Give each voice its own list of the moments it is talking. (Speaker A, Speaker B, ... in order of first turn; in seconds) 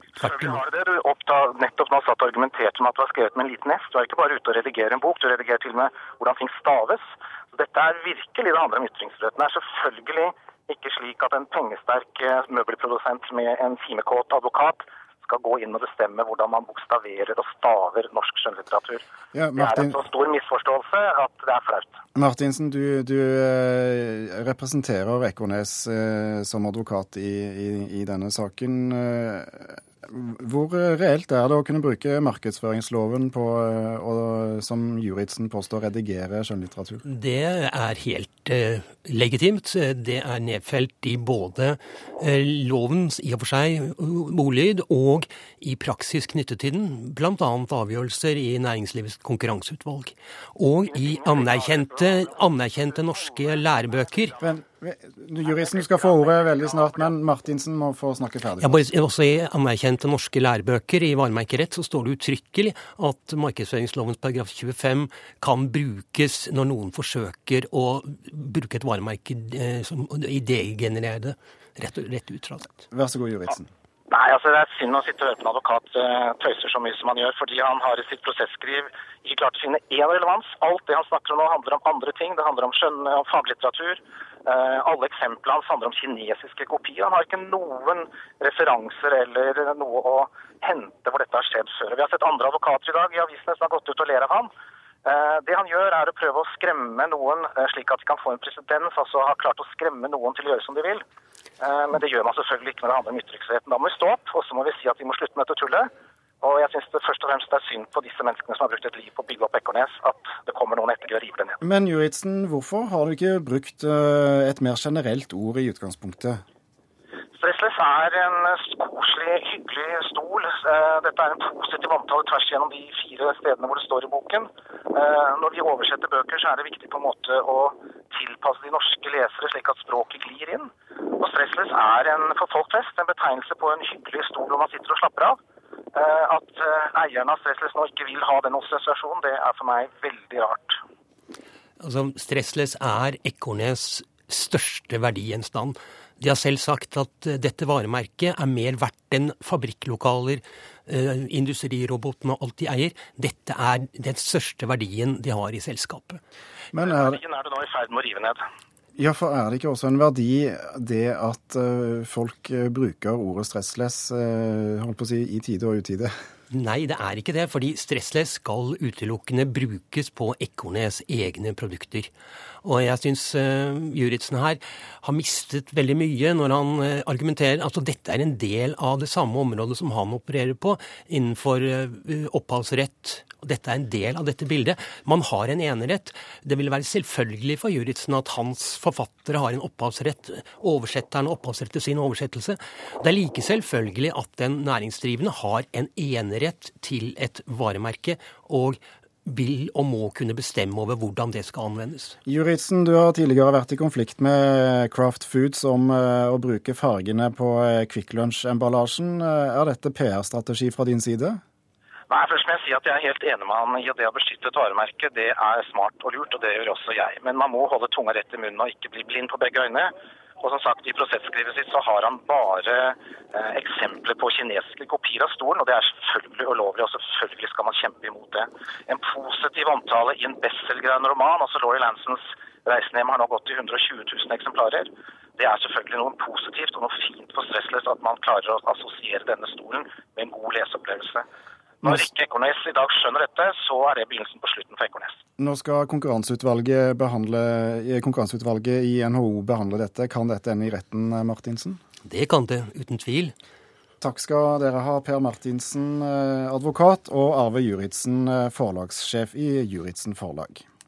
Speaker A: 0.2-0.6, 37.0-54.3, 58.6-72.7, 141.8-156.2, 166.5-172.1, 172.6-202.2, 252.1-253.3
Speaker B: 0.2-19.0, 19.6-22.0, 50.9-52.4, 53.2-54.5, 55.5-57.1, 74.1-94.5, 95.0-101.0, 101.6-105.9, 106.4-111.6, 117.4-135.4, 135.9-140.8, 156.8-158.4, 212.1-241.3, 241.8-245.2
Speaker C: 19.3-20.0, 22.1-37.0, 54.4-58.8, 72.9-73.7, 111.6-116.4, 156.7-157.2, 159.0-166.1, 202.2-211.4, 245.4-251.8, 254.0-260.6